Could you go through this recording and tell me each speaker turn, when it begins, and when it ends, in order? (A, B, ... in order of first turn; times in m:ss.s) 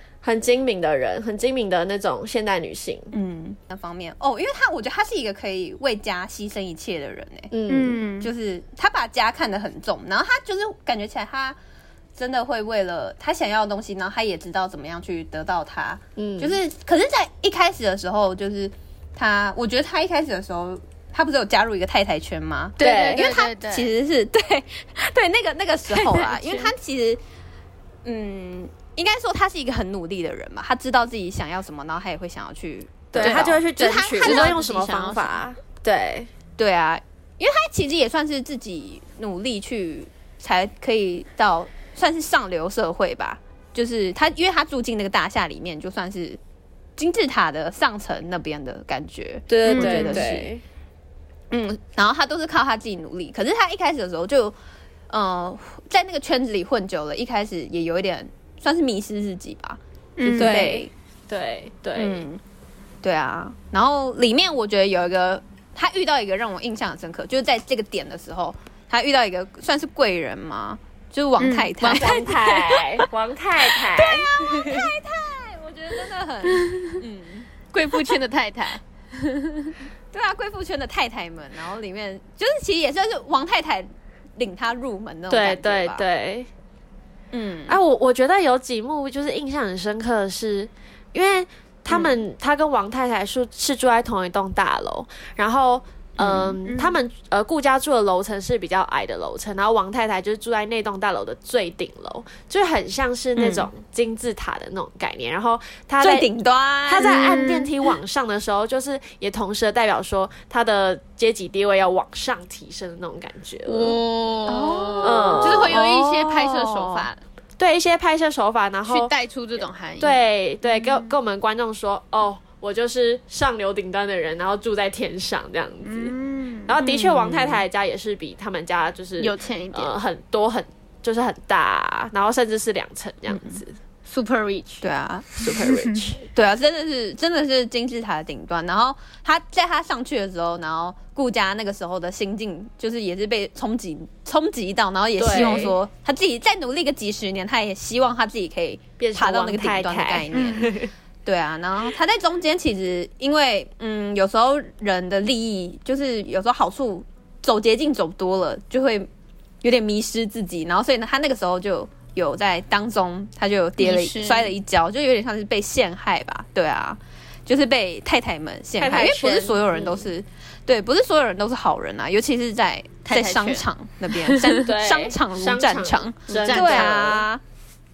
0:00.2-0:03.1 A
0:03.1-0:07.5 B
0:07.5-0:08.0 A
0:07.7-0:08.3 C
0:08.2-0:11.6 B
0:12.2-0:27.2 B
0:16.2-0:16.6 A
0:22.8-0:23.9 C
0:22.8-0:23.3 A
0:26.1-0:26.7 C
0:28.0-0:34.5 B
0:33.1-0:36.3 A
0:33.2-0:33.6 C
0:34.1-0:35.4 C
0:36.6-0:46.4 B
0:47.0-0:50.5 B
0:49.5-0:50.6 A
0:49.7-0:50.3 C
0:51.5-0:54.6 B
0:55.1-1:00.9 B
1:00.2-1:00.7 C
1:00.3-1:02.2 A
1:02.0-1:02.4 B
1:03.0-1:12.8 B
1:11.4-1:12.3 C
1:11.8-1:14.9 A
1:13.9-1:17.5 B
1:16.6-1:17.0 C
1:17.7-1:19.8 C
1:20.1-1:26.0 B
1:25.3-1:26.5 A
1:27.3-1:27.8 B
1:27.7-1:46.3 A
1:36.2-1:36.6 B
1:36.7-1:37.0 C
1:43.4-1:43.7 B
1:46.0-1:47.3 B
1:46.9-1:54.0 A
1:47.0-1:47.8 C
1:53.7-1:57.2 C
1:54.5-1:57.1 B
1:55.0-1:55.8 A
1:57.6-1:59.1 A
1:58.9-2:01.2 C
2:00.0-2:06.2 A
2:05.8-2:06.8 C
2:06.7-2:13.8 A
2:06.8-2:07.6 B
2:09.2-2:10.0 C
2:13.3-2:13.6 B
2:14.1-2:14.8 C
2:14.8-2:15.4 B
2:15.4-2:16.2 A
2:15.6-2:16.0 C
2:16.2-2:30.7 B
2:25.2-2:25.8 A
2:29.0-2:30.9 A
2:30.3-2:30.7 C
2:31.2-2:39.1 B
2:39.6-2:57.4 B
2:43.8-2:44.5 C
2:48.8-2:50.1 A
2:53.1-2:54.6 C
2:54.6-2:57.2 A
2:56.3-2:57.0 C